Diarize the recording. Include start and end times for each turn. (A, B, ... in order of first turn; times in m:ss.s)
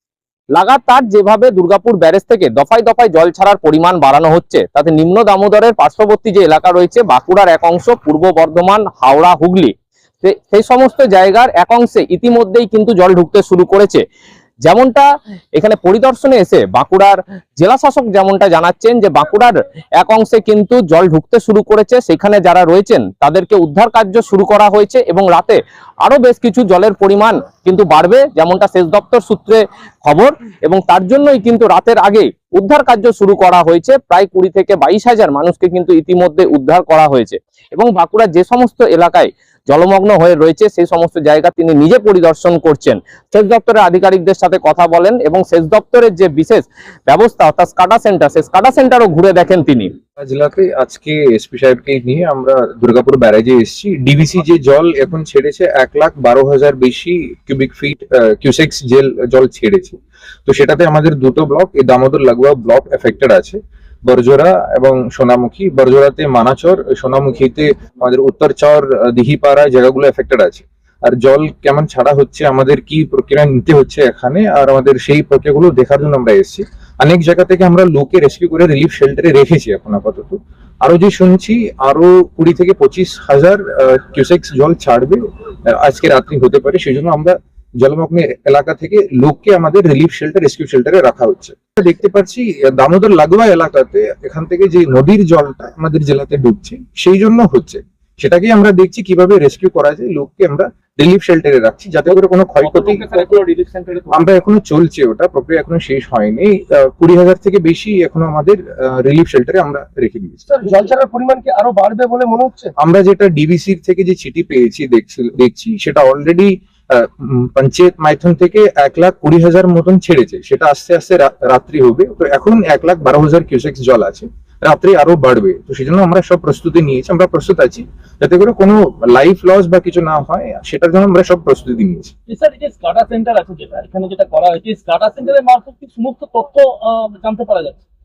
0:00.5-0:14.0 A
0:14.7-0:49.9 A
0:50.2-1:43.2 B
1:42.6-1:44.2 C
1:44.1-1:50.4 B
1:50.5-1:52.7 D
1:52.8-2:12.1 B
2:12.3-2:17.8 C